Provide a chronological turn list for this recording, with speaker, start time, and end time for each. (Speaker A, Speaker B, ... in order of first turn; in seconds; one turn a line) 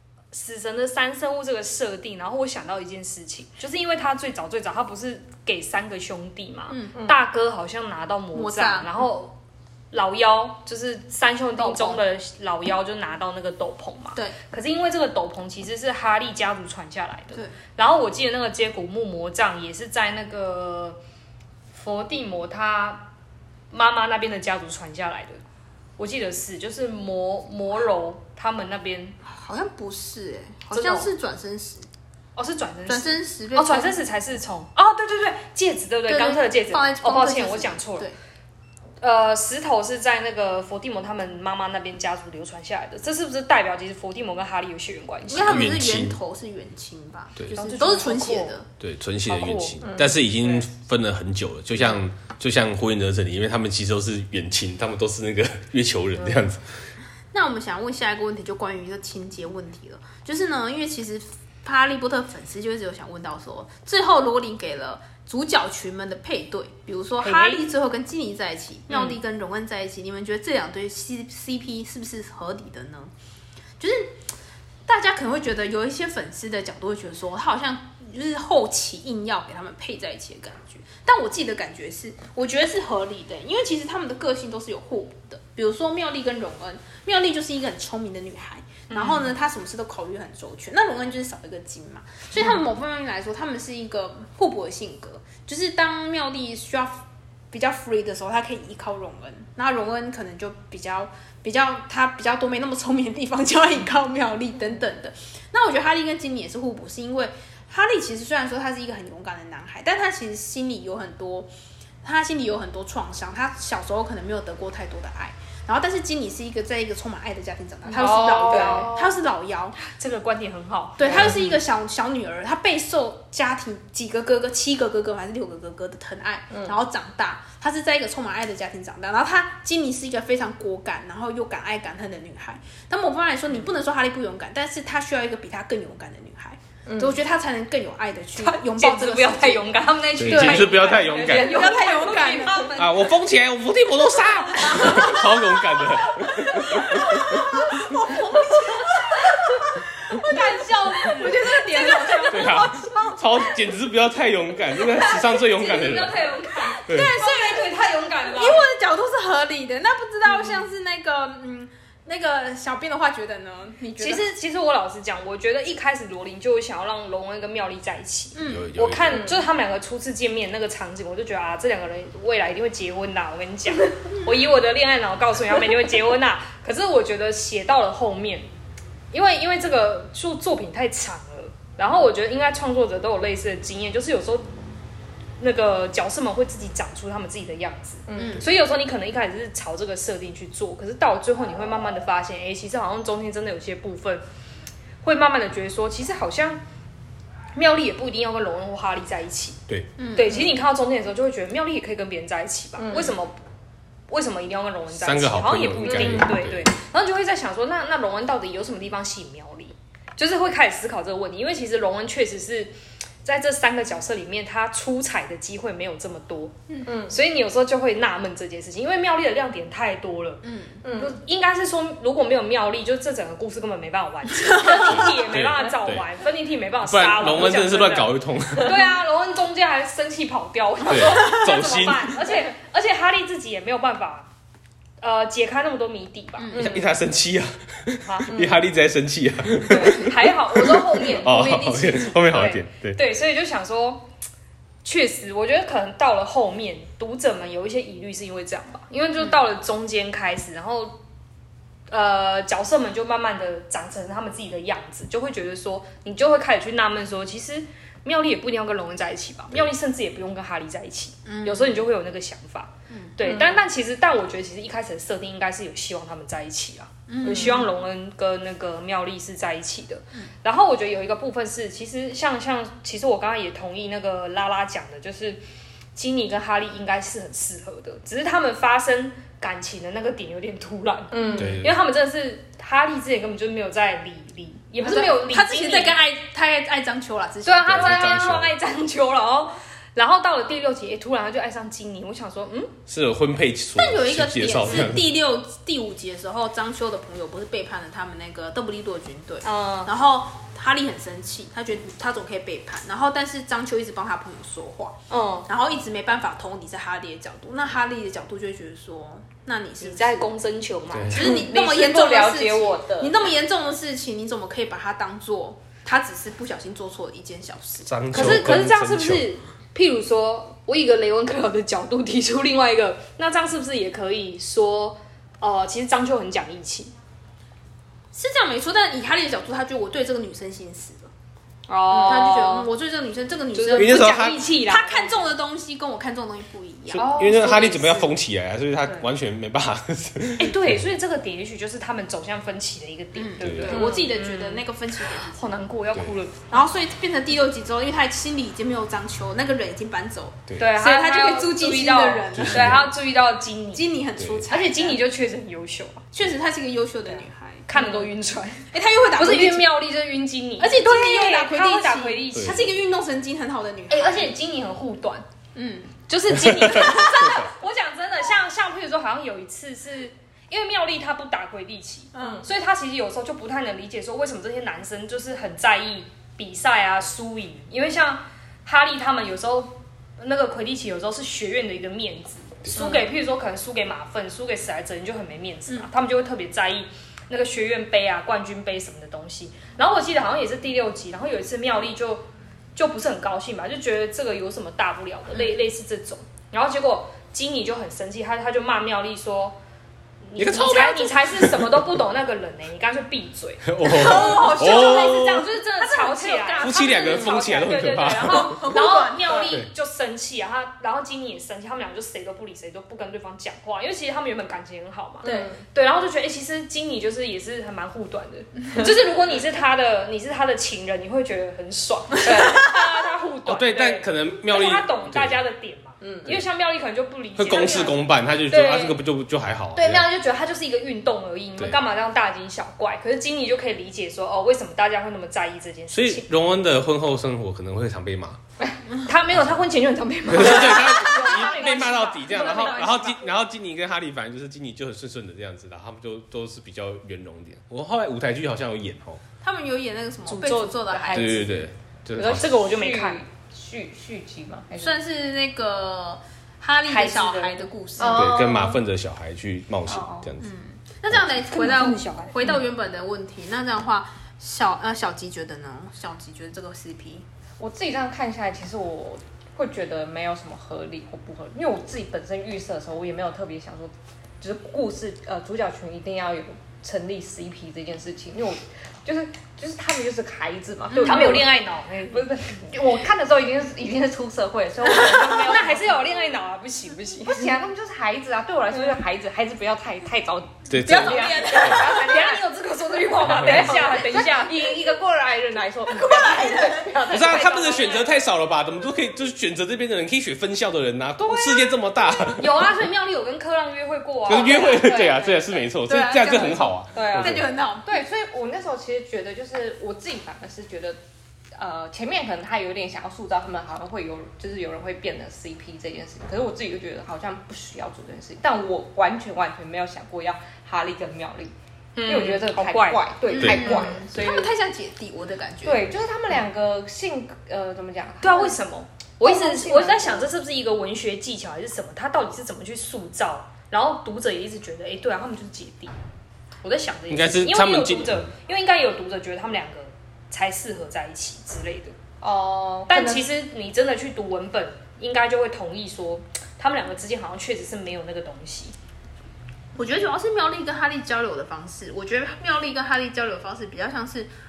Speaker A: 0.3-9.4
Speaker B: 6.7-7.0
Speaker B: 8.3-8.9
Speaker A: 9.9-21.0
Speaker B: 11.6-12.0
Speaker A: 21.7-23.1
Speaker A: 23.7-25.4
Speaker A: 26.0-29.2
Speaker B: 29.2-31.9
Speaker A: 30.7-31.1
Speaker A: 32.4-38.1
Speaker B: 32.9-33.9
Speaker B: 36.1-38.2
Speaker A: 39.0-45.6
Speaker B: 45.3-48.7
Speaker C: 45.4-46.2
Speaker A: 47.5-48.6
Speaker C: 48.8-56.6
Speaker A: 49.3-49.8
Speaker D: 49.8-50.2
Speaker A: 56.2-56.5
Speaker B: 57.3-73.1
Speaker A: 67.2-67.6
Speaker A: 68.9-69.2
Speaker B: 73.8-74.1
Speaker B: 74.9-111.5
Speaker A: 88.9-89.4
Speaker B: 112.0-119.8
Speaker A: 117.9-119.2
Speaker D: 118.0-119.0
Speaker A: 119.8-121.5
Speaker B: 121.0-139.7
Speaker D: 121.1-121.5
Speaker D: 126.5-126.8
Speaker D: 136.9-137.2
Speaker A: 138.4-142.9
Speaker C: 140.2-141.6
Speaker B: 140.2-142.8
Speaker D: 140.7-142.7
Speaker C: 142.8-147.5
Speaker B: 144.6-153.1
Speaker A: 150.3-152.6
Speaker C: 152.3-156.3
Speaker A: 154.8-158.7
Speaker B: 156.5-164.3
Speaker C: 156.9-157.2
Speaker A: 164.0-178.5
Speaker B: 168.3-168.7
Speaker C: 168.4-169.3
Speaker D: 169.1-169.4
Speaker A: 179.1-184.5
Speaker A: 185.4-194.2
Speaker D: 188.1-188.4
Speaker B: 188.2-188.4
Speaker A: 195.0-196.6
Speaker A: 197.6-199.6
Speaker B: 200.0-200.4
Speaker A: 200.2-203.4
Speaker D: 202.8-203.2
Speaker A: 204.1-212.7
Speaker C: 204.9-206.7
Speaker D: 205.8-206.3
Speaker A: 213.2-234.3
Speaker D: 216.9-217.2
Speaker B: 220.4-220.8
Speaker D: 220.8-221.2
Speaker B: 224.4-225.1
Speaker C: 224.8-226.1
Speaker C: 226.8-228.8
Speaker C: 230.9-232.2
Speaker A: 235.0-236.7
Speaker B: 236.4-236.7
Speaker D: 236.5-236.9
Speaker C: 236.6-243.0
Speaker A: 238.0-238.3
Speaker D: 238.3-238.6
Speaker D: 239.7-241.4
Speaker A: 239.7-244.1
Speaker A: 244.8-251.0
Speaker A: 251.9-275.4
Speaker B: 261.3-261.9
Speaker B: 262.9-263.1
Speaker D: 263.2-263.6
Speaker B: 267.1-267.7
Speaker D: 267.2-267.6
Speaker A: 275.9-286.0
Speaker D: 281.1-281.6
Speaker C: 281.4-281.8
Speaker B: 284.8-288.3
Speaker A: 287.4-292.8
Speaker C: 287.6-288.6
Speaker C: 292.9-295.1
Speaker B: 293.8-310.3
Speaker A: 299.4-299.9
Speaker A: 305.1-305.5
Speaker A: 309.8-311.5
Speaker C: 310.9-311.2
Speaker B: 311.1-318.5
Speaker D: 311.1-313.2
Speaker C: 317.9-319.3
Speaker A: 318.1-326.9
Speaker B: 328.1-331.1
Speaker A: 331.7-332.7
Speaker B: 331.9-337.1
Speaker D: 331.9-332.2
Speaker A: 333.5-335.3
Speaker C: 333.8-334.4
Speaker C: 336.9-340.8
Speaker A: 337.0-338.1
Speaker A: 340.4-346.6
Speaker B: 343.1-345.4
Speaker C: 343.4-343.8
Speaker D: 343.7-344.0
Speaker B: 346.5-352.9
Speaker A: 350.6-353.9
Speaker C: 352.3-352.9
Speaker B: 353.7-355.0
Speaker A: 354.5-356.1
Speaker B: 356.1-358.1
Speaker A: 357.1-362.7
Speaker B: 358.7-359.7
Speaker B: 360.6-364.3
Speaker C: 362.3-362.7
Speaker A: 363.9-365.2
Speaker B: 365.6-366.0
Speaker A: 366.1-399.6
Speaker C: 366.3-367.5
Speaker B: 366.6-367.4
Speaker B: 372.1-372.5
Speaker A: 400.3-429.0
Speaker C: 400.4-401.9
Speaker C: 403.6-405.5
Speaker B: 403.8-409.5
Speaker C: 406.6-408.7
Speaker C: 409.4-409.7
Speaker B: 415.2-415.5
Speaker D: 415.2-415.6
Speaker D: 422.2-422.7
Speaker C: 423.4-425.4
Speaker D: 426.0-426.4
Speaker C: 427.4-430.1
Speaker A: 429.8-436.3
Speaker C: 435.9-438.4
Speaker A: 439.0-443.3
Speaker C: 440.3-449.2
Speaker D: 441.3-441.8
Speaker D: 442.4-442.6
Speaker B: 449.4-451.5
Speaker A: 450.3-451.4
Speaker C: 451.1-452.5
Speaker A: 452.2-453.2
Speaker D: 452.2-455.0
Speaker B: 454.8-458.3
Speaker A: 456.9-457.6
Speaker D: 458.0-458.8
Speaker C: 458.1-460.5
Speaker D: 459.9-460.3
Speaker B: 460.4-467.2
Speaker A: 461.4-462.6
Speaker D: 467.6-481.6
Speaker B: 480.9-481.4
Speaker A: 481.0-482.7
Speaker D: 482.1-486.2
Speaker A: 484.9-487.6
Speaker D: 487.2-498.0
Speaker A: 488.7-489.0
Speaker C: 490.7-491.7
Speaker B: 490.9-492.1
Speaker A: 490.9-494.7
Speaker C: 493.3-493.7
Speaker B: 495.9-496.9
Speaker C: 497.1-502.8
Speaker A: 497.1-498.1
Speaker A: 502.3-505.4
Speaker C: 504.3-507.5
Speaker D: 504.3-505.3
Speaker B: 505.9-508.0
Speaker D: 506.9-511.0
Speaker D: 511.6-521.5
Speaker A: 522.0-524.0
Speaker D: 522.1-524.5
Speaker B: 523.3-525.9
Speaker C: 523.4-523.8
Speaker D: 525.6-528.6
Speaker A: 528.2-535.9
Speaker D: 529.2-530.3
Speaker A: 536.6-541.9
Speaker C: 537.1-538.3
Speaker D: 542.2-543.3
Speaker A: 542.9-548.7
Speaker B: 549.8-554.3